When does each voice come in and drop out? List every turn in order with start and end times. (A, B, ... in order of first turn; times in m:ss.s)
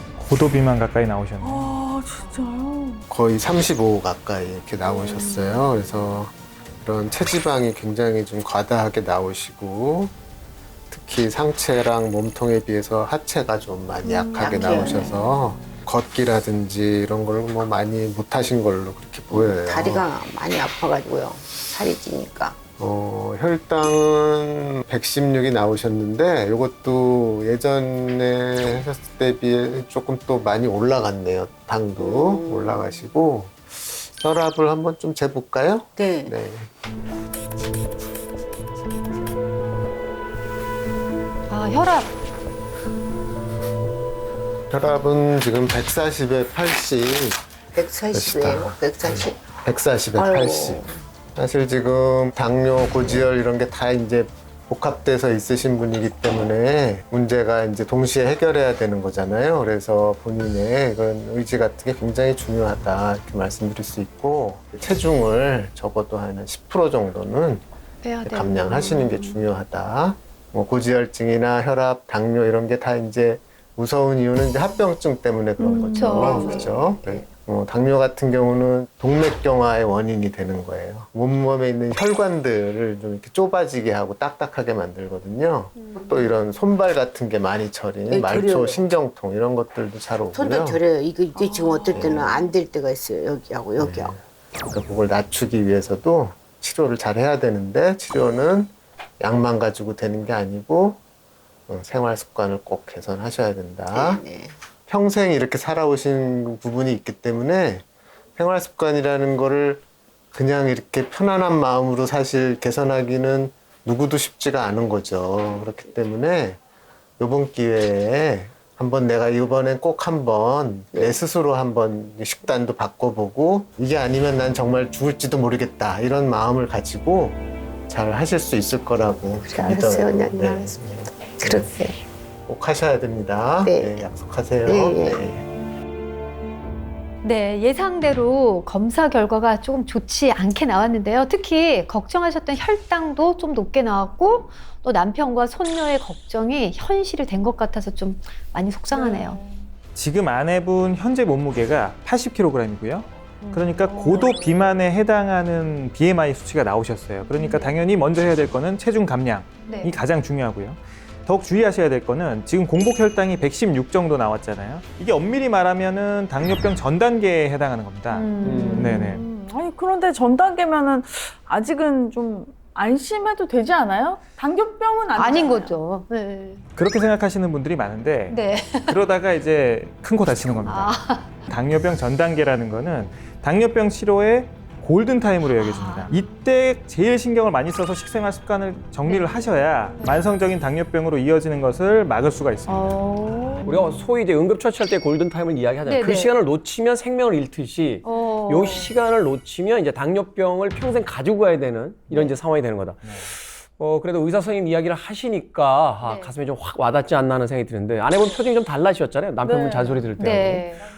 0:00.2-0:01.7 A
0:01.4-0:03.0 B
0:03.1-0:10.1 C
0:10.9-0:20.0 C
0:14.4-0:15.3 D
0:19.3-0:22.6 D
0:22.8-0:36.7 C
0:32.0-0:32.7 D
0:36.0-0:36.3 D
0:41.5-0:42.1 E
0:44.7-0:47.4 C
0:47.7-0:49.4 D
0:48.1-1:07.6 C
0:50.2-0:51.0 D
1:08.0-1:09.4 E
1:08.2-1:30.8 C
1:15.6-1:16.5 B
1:15.9-1:16.7 E
1:16.3-1:17.2 D
1:25.8-1:26.3 E
1:28.1-1:28.8 D
1:30.3-1:34.1 D
1:31.4-1:32.3 E
1:31.9-1:32.4 C
1:33.8-1:41.0 C
1:41.7-1:44.2 C
1:43.9-1:44.6 D
1:44.9-1:47.8 C
1:48.4-1:56.6 C
1:57.2-2:11.7 C
2:09.4-2:12.0 D
2:12.5-2:15.4 C
2:13.6-2:14.0 D
2:14.6-2:15.2 D
2:17.2-2:29.4 E
2:28.9-2:29.6 B
2:30.0-2:49.2 A
2:33.4-2:34.3 E
2:34.1-2:34.5 B
2:37.3-2:37.7 E
2:39.6-2:40.0 E
2:48.1-2:49.2 E
2:48.4-2:55.8 B
2:48.4-2:48.8 C
2:55.1-2:56.6 E
2:56.8-3:13.0 A
2:58.3-2:59.0 E
3:00.6-3:01.4 E
3:05.5-3:06.2 E
3:09.0-3:09.5 E
3:10.0-3:10.2 E
3:12.7-3:13.7 E
3:13.6-3:30.7 F
3:15.8-3:16.3 E
3:18.0-3:18.9 E
3:23.0-3:23.3 A
3:26.0-3:26.3 E
3:29.4-3:30.2 B
3:30.2-3:30.8 E